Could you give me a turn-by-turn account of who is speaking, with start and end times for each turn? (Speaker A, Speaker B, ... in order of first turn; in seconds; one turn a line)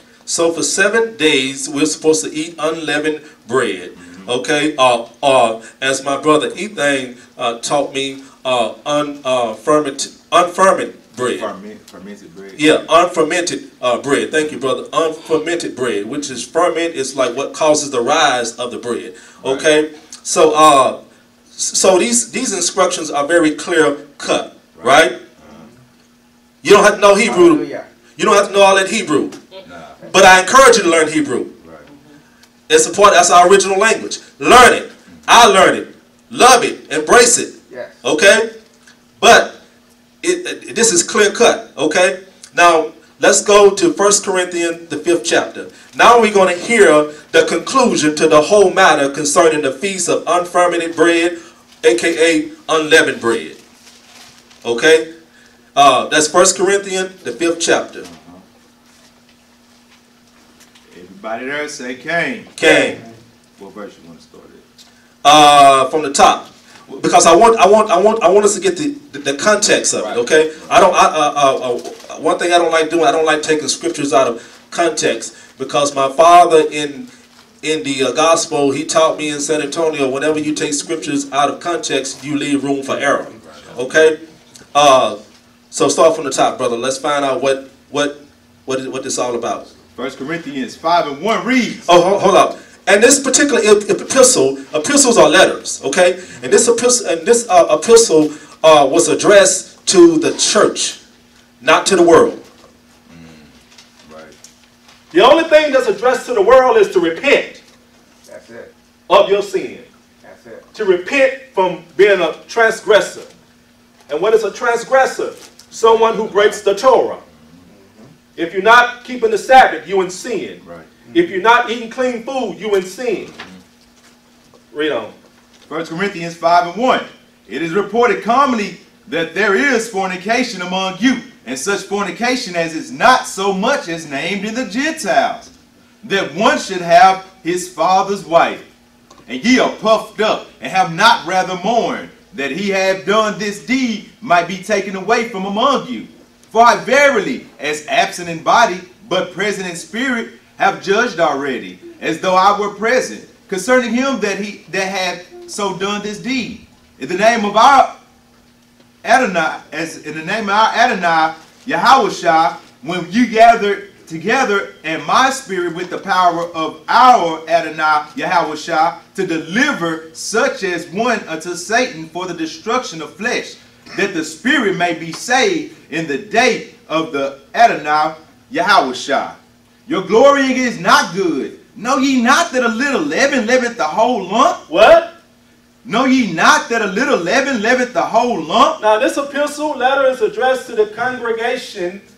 Speaker A: 0.2-11.5
Speaker B: 4.0-4.3
Speaker B: 11.3-12.6
Speaker A: 12.6-21.0
Speaker B: 19.4-19.7
Speaker A: 21.5-25.2
Speaker B: 24.7-25.7
Speaker A: 26.6-27.6
Speaker C: 27.2-27.9
Speaker A: 28.1-29.4
Speaker B: 29.6-30.0
Speaker A: 30.1-31.5
Speaker B: 31.6-31.9
Speaker A: 32.7-38.5
Speaker C: 37.7-38.0
Speaker A: 39.2-39.6
Speaker A: 40.2-53.6
Speaker A: 54.6-55.1
Speaker A: 55.7-58.0
Speaker B: 58.0-58.4
Speaker B: 60.9-62.9
Speaker A: 62.6-63.0
Speaker B: 63.6-64.6
Speaker A: 65.2-77.1
Speaker B: 70.0-70.8
Speaker A: 77.6-84.2
Speaker A: 84.7-85.2
Speaker A: 85.7-89.7
Speaker B: 89.9-91.9
Speaker A: 91.9-101.0
Speaker A: 101.6-102.4
Speaker B: 103.1-104.3
Speaker A: 105.1-107.6
Speaker C: 108.3-108.7
Speaker A: 109.1-109.9
Speaker C: 110.2-110.6
Speaker A: 110.7-113.3
Speaker A: 114.1-117.2
Speaker B: 115.7-116.6
Speaker B: 117.3-117.6
Speaker C: 117.7-118.1
Speaker A: 118.3-120.6
Speaker B: 120.6-120.9
Speaker A: 121.1-123.3
Speaker B: 123.3-123.5
Speaker A: 124.7-125.1
Speaker B: 125.7-138.6
Speaker B: 139.3-158.0
Speaker B: 159.0-184.6
Speaker A: 184.7-185.1
Speaker B: 185.8-188.8
Speaker A: 188.8-192.0